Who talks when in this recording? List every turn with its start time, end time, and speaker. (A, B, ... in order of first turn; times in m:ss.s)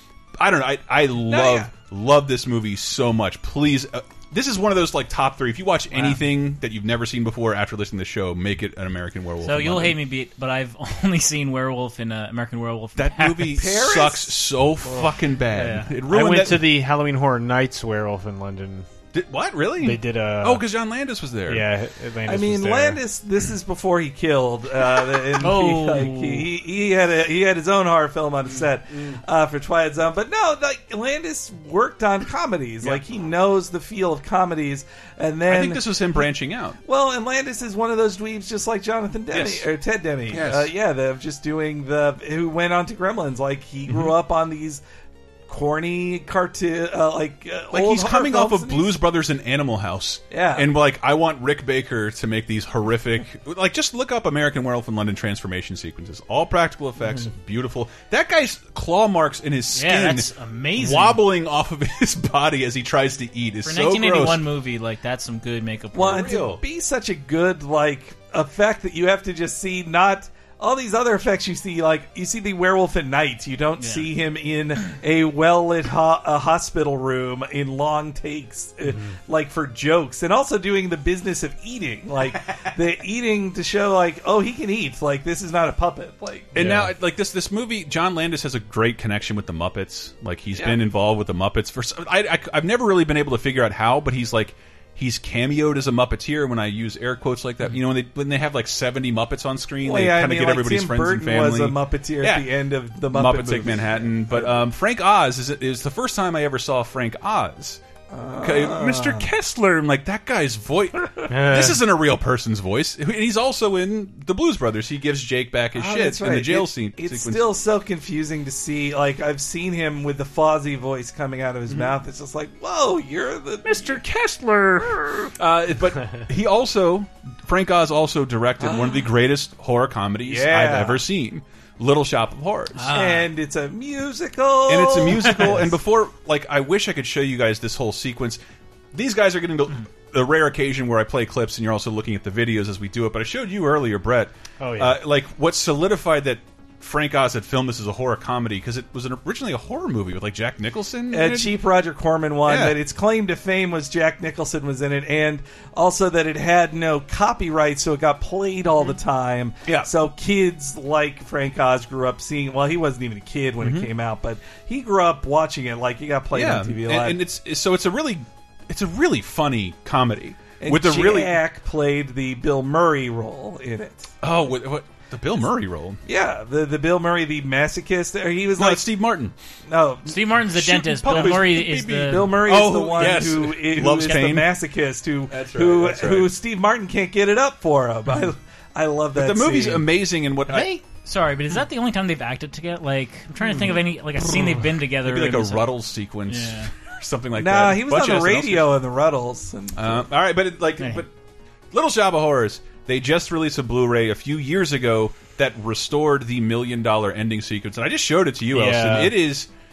0:00.4-0:10.0 A
0:01.3-0:01.7 B
0:09.4-0:13.6 C
0:13.0-0:16.7 A
0:13.6-0:14.3 B
0:15.5-0:15.9 C
0:16.1-0:18.9 D
0:19.1-0:21.7 A
0:19.8-0:20.6 D
0:21.5-0:23.0 D
0:22.2-0:36.2 B
0:25.4-0:26.5 C
0:28.5-0:29.2 A
0:35.5-0:36.8 A
0:36.8-0:44.8 B
0:39.3-0:39.7 A
0:40.3-0:40.7 A
0:45.5-0:48.9 B
0:47.7-1:04.4 A
0:50.3-0:50.7 B
0:57.0-0:57.3 B
0:59.8-1:01.2 C
1:03.6-1:06.4 C
1:05.9-1:26.6 B
1:06.1-1:06.6 A
1:13.8-1:14.1 C
1:26.5-1:42.5 A
1:26.6-1:26.9 D
1:39.8-1:44.6 B
1:43.1-1:47.8 A
1:48.1-1:49.2 B
1:48.4-1:57.4 A
1:51.3-1:51.8 D
1:55.8-2:04.0 B
2:03.7-2:12.9 A
2:08.6-2:09.1 B
2:10.3-2:11.0 B
2:12.8-2:13.3 C
2:12.9-2:15.7 B
2:14.7-2:18.4 A
2:18.9-2:31.5 A
2:24.6-2:25.0 D
2:31.1-2:47.2 B
2:32.5-2:32.8 A
2:43.6-2:43.9 A
2:46.3-2:51.4 A
2:50.6-2:54.1 B
2:54.2-2:56.0 A
2:56.1-2:58.9 B
2:58.6-2:59.3 A
2:59.7-3:00.2 B
3:00.1-3:02.4 C
3:00.5-3:04.5 A
3:01.1-3:01.5 B
3:02.1-3:09.9 B
3:05.3-3:06.3 A
3:09.2-3:10.8 A
3:10.6-3:15.7 C
3:15.0-3:18.7 A
3:16.3-3:16.7 C
3:17.4-3:20.1 B
3:19.7-3:21.1 A
3:20.8-3:21.0 C
3:21.7-3:29.5 A
3:28.5-3:29.2 D